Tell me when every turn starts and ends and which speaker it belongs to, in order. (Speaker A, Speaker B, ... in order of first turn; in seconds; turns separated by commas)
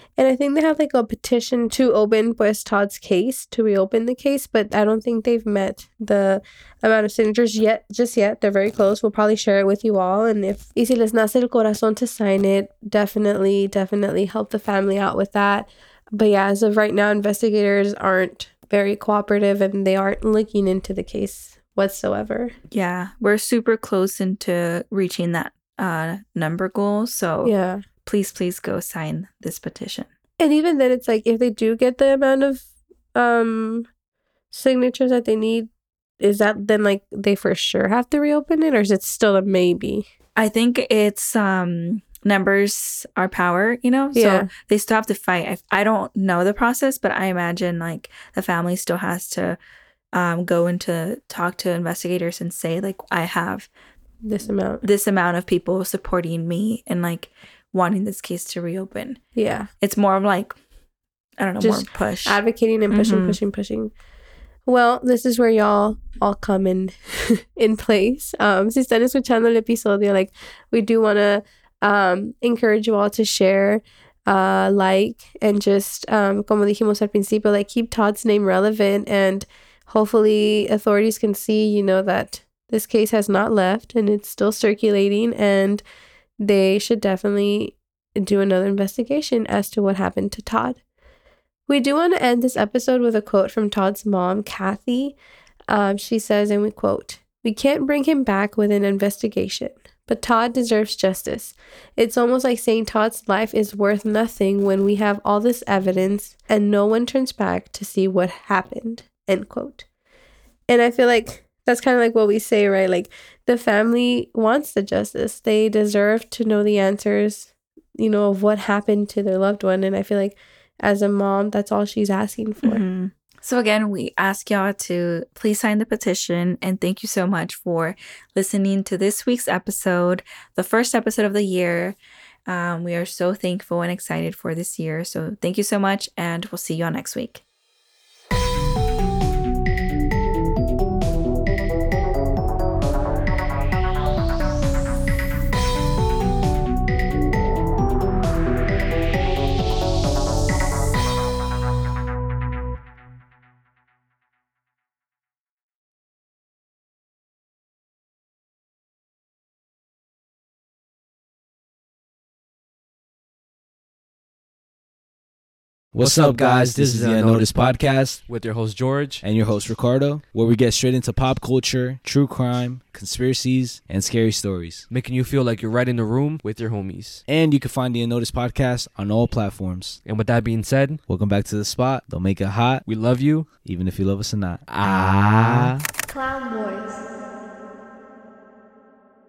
Speaker A: 0.2-22.5, Speaker B: 22.7-27.5, Speaker A: 27.4-27.9, Speaker B: 28.1-30.1, Speaker A: 30.4-33.9, Speaker A: 34.5-35.7, Speaker A: 36.2-40.1, Speaker B: 40.4-49.6, Speaker A: 44.1-44.5, Speaker B: 50.1-53.7, Speaker A: 54.2-54.8, Speaker B: 54.8-59.2, Speaker A: 59.4-59.7, Speaker B: 59.8-60.6, Speaker B: 61.4-62.4, Speaker A: 61.6-63.9, Speaker B: 62.9-63.4, Speaker A: 64.7-85.8, Speaker A: 86.4-90.8, Speaker A: 91.7-95.2, Speaker A: 95.7-109.8, Speaker A: 110.7-122.8, Speaker B: 122.6-137.4, Speaker C: 165.9-168.2, Speaker D: 166.0-169.2, Speaker C: 169.2-174.9, Speaker D: 174.9-177.2, Speaker C: 177.2-180.0, Speaker D: 180.0-181.0, Speaker C: 181.1-182.9, Speaker D: 182.8-183.6, Speaker C: 183.6-185.8, Speaker D: 184.7-185.8, Speaker A: 186.1-187.0